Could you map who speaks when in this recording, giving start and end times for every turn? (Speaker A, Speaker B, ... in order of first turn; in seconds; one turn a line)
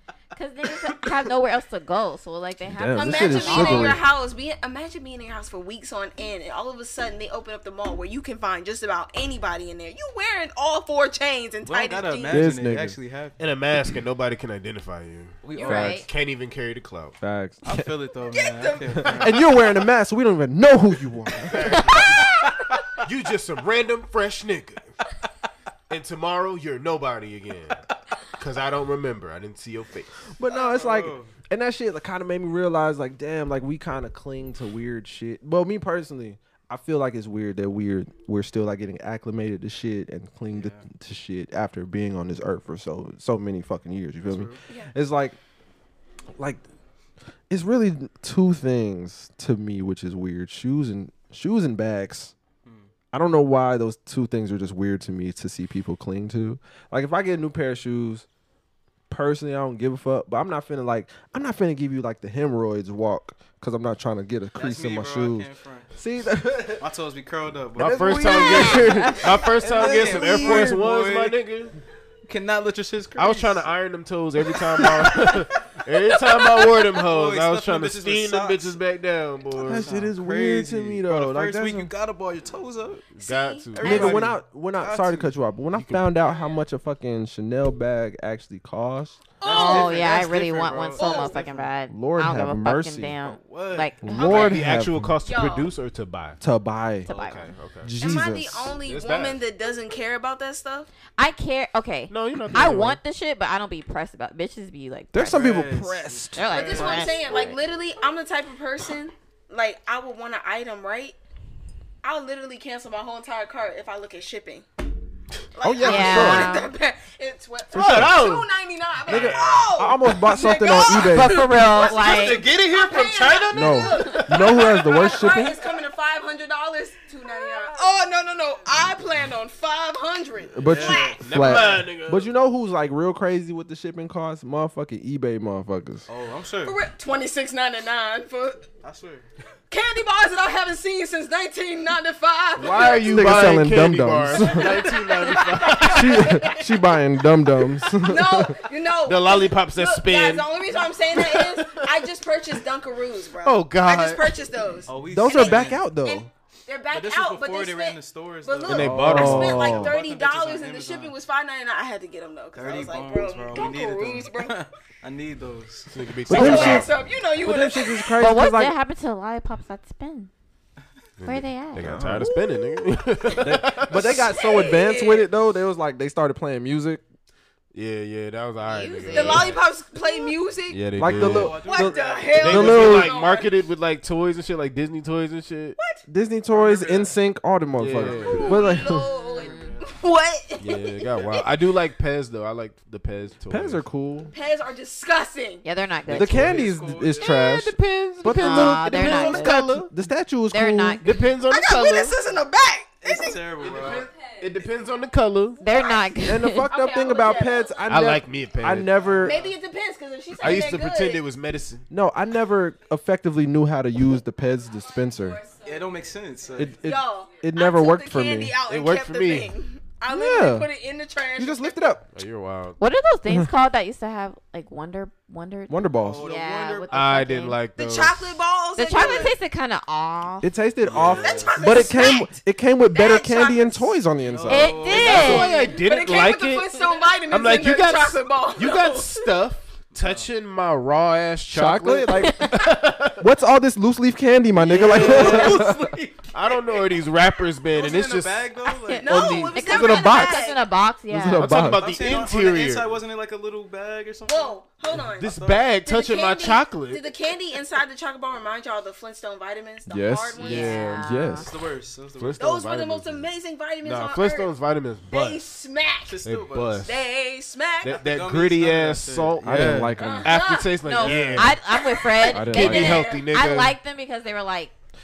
Speaker A: 0.3-4.0
Speaker B: 2.7-4.0
Speaker C: 2.9-12.5
Speaker D: 11.6-13.4
Speaker B: 12.3-13.0
Speaker E: 13.4-17.2
Speaker D: 15.4-15.9
Speaker A: 15.5-16.1
Speaker B: 15.7-16.0
Speaker B: 17.2-17.9
Speaker D: 17.6-19.4
Speaker C: 18.3-19.3
Speaker B: 19.0-21.9
Speaker E: 21.4-22.3
Speaker E: 23.0-24.9
Speaker E: 25.9-27.8
Speaker E: 28.4-30.3
Speaker B: 30.4-45.4
Speaker D: 30.5-31.3
Speaker D: 40.5-40.8
Speaker D: 44.2-44.6
Speaker B: 46.4-46.6
Speaker B: 47.5-52.3
Speaker B: 53.1-58.3
Speaker B: 59.1-66.8
Speaker D: 64.6-65.9
Speaker D: 66.8-71.4
Speaker E: 67.8-71.7
Speaker B: 67.8-70.8
Speaker D: 72.3-73.7
Speaker E: 73.2-79.9
Speaker C: 76.3-76.8
Speaker D: 77.0-78.8
Speaker D: 79.5-83.1
Speaker B: 79.6-81.9
Speaker E: 83.2-84.3
Speaker C: 83.2-84.0
Speaker D: 83.8-85.3
Speaker B: 83.8-89.2
Speaker E: 85.7-86.2
Speaker C: 89.4-90.1
Speaker D: 89.4-91.7
Speaker A: 89.5-94.4
Speaker C: 91.0-91.5
Speaker B: 91.9-93.2
Speaker D: 93.2-94.6
Speaker B: 94.0-95.2
Speaker E: 94.1-96.4
Speaker C: 95.2-95.7
Speaker B: 96.4-97.1
Speaker A: 97.1-97.5
Speaker E: 97.1-97.9
Speaker B: 97.8-98.8
Speaker C: 98.0-100.9
Speaker E: 98.8-99.4
Speaker A: 101.2-105.5
Speaker E: 102.1-103.0
Speaker B: 105.1-106.5
Speaker D: 105.3-106.9
Speaker A: 106.3-107.2
Speaker C: 106.5-111.2
Speaker E: 106.5-107.6
Speaker C: 112.0-114.7
Speaker C: 115.5-131.3
Speaker B: 115.6-116.6
Speaker A: 115.8-116.7
Speaker E: 117.7-118.5
Speaker E: 119.1-119.9
Speaker B: 119.1-121.5
Speaker A: 121.0-122.4
Speaker E: 121.8-125.2
Speaker B: 123.5-125.6
Speaker B: 130.5-136.1
Speaker D: 130.6-131.2
Speaker E: 131.2-132.3
Speaker D: 136.1-136.8
Speaker C: 136.6-138.7
Speaker D: 138.8-139.3
Speaker C: 139.7-143.5
Speaker E: 142.6-146.6
Speaker B: 143.0-144.9
Speaker C: 144.6-146.8
Speaker B: 145.8-148.6
Speaker C: 147.9-164.7
Speaker E: 149.1-152.1
Speaker E: 153.4-154.8
Speaker D: 154.9-155.8
Speaker B: 155.0-156.3
Speaker D: 156.9-161.1
Speaker E: 158.7-159.8
Speaker B: 158.8-159.9
Speaker D: 162.5-166.0
Speaker E: 165.9-167.0
Speaker B: 166.3-166.9
Speaker C: 166.3-168.2
Speaker A: 166.4-166.8
Speaker B: 167.4-168.8
Speaker A: 168.2-170.3
Speaker E: 171.2-174.4
Speaker A: 171.2-171.9
Speaker B: 171.8-172.4
Speaker B: 173.4-177.0
Speaker C: 174.0-175.3
Speaker E: 177.7-179.6
Speaker A: 178.7-179.6
Speaker C: 179.1-180.9
Speaker E: 180.7-181.6
Speaker B: 181.0-183.1
Speaker D: 181.1-182.8
Speaker C: 181.6-183.7
Speaker E: 182.3-185.8
Speaker C: 185.8-186.0
Speaker B: 186.1-189.1
Speaker D: 186.5-187.2
Speaker E: 187.8-188.6
Speaker D: 188.0-189.9
Speaker C: 188.2-191.5
Speaker A: 188.9-189.7
Speaker E: 190.6-193.8
Speaker B: 193.5-194.3
Speaker C: 194.3-195.6
Speaker A: 195.6-196.5
Speaker E: 196.1-199.9
Speaker B: 196.1-201.0
Speaker D: 196.4-197.3
Speaker A: 198.3-199.7
Speaker A: 200.5-201.1
Speaker E: 201.0-202.2
Speaker C: 201.5-203.4
Speaker D: 203.0-204.1
Speaker E: 203.6-205.6
Speaker A: 205.6-206.7
Speaker C: 205.6-208.1
Speaker B: 206.2-209.4
Speaker E: 207.9-209.2
Speaker D: 209.0-209.6
Speaker C: 209.2-211.2
Speaker E: 210.4-211.9
Speaker B: 211.9-215.4
Speaker C: 215.1-215.9
Speaker D: 215.7-216.8
Speaker B: 216.6-218.6
Speaker C: 216.8-222.0
Speaker E: 218.7-219.5
Speaker B: 220.1-220.7
Speaker B: 221.4-222.0
Speaker E: 222.1-222.8
Speaker A: 222.8-227.6
Speaker B: 225.7-226.2
Speaker D: 226.0-227.2
Speaker E: 226.9-228.4
Speaker C: 227.8-229.4
Speaker A: 228.8-230.5
Speaker B: 230.4-234.9
Speaker E: 230.8-231.8
Speaker C: 231.1-232.4
Speaker C: 232.9-233.9
Speaker D: 234.2-235.5
Speaker A: 234.5-235.5
Speaker C: 234.9-239.3
Speaker E: 234.9-243.3
Speaker D: 239.9-240.3
Speaker B: 241.5-242.7
Speaker B: 243.2-245.8
Speaker E: 244.6-245.7
Speaker D: 244.7-246.9
Speaker E: 246.3-248.5
Speaker D: 247.7-249.4
Speaker A: 248.7-251.5
Speaker C: 248.9-250.6
Speaker B: 249.1-250.4
Speaker B: 251.1-252.0
Speaker E: 251.3-253.0
Speaker D: 251.8-255.7
Speaker C: 254.3-260.9
Speaker E: 255.2-257.1
Speaker B: 259.9-261.5
Speaker A: 260.4-261.5
Speaker E: 260.4-261.1
Speaker D: 261.4-262.4
Speaker E: 262.2-263.3
Speaker C: 262.4-264.5
Speaker E: 263.8-265.4
Speaker C: 265.1-266.2
Speaker D: 266.1-266.9
Speaker E: 266.2-267.0
Speaker C: 266.8-268.1
Speaker E: 267.8-271.6
Speaker D: 268.0-269.9
Speaker B: 269.4-270.4
Speaker C: 270.0-271.1
Speaker A: 270.8-274.7
Speaker C: 271.7-273.2
Speaker B: 272.3-273.0
Speaker E: 272.5-273.8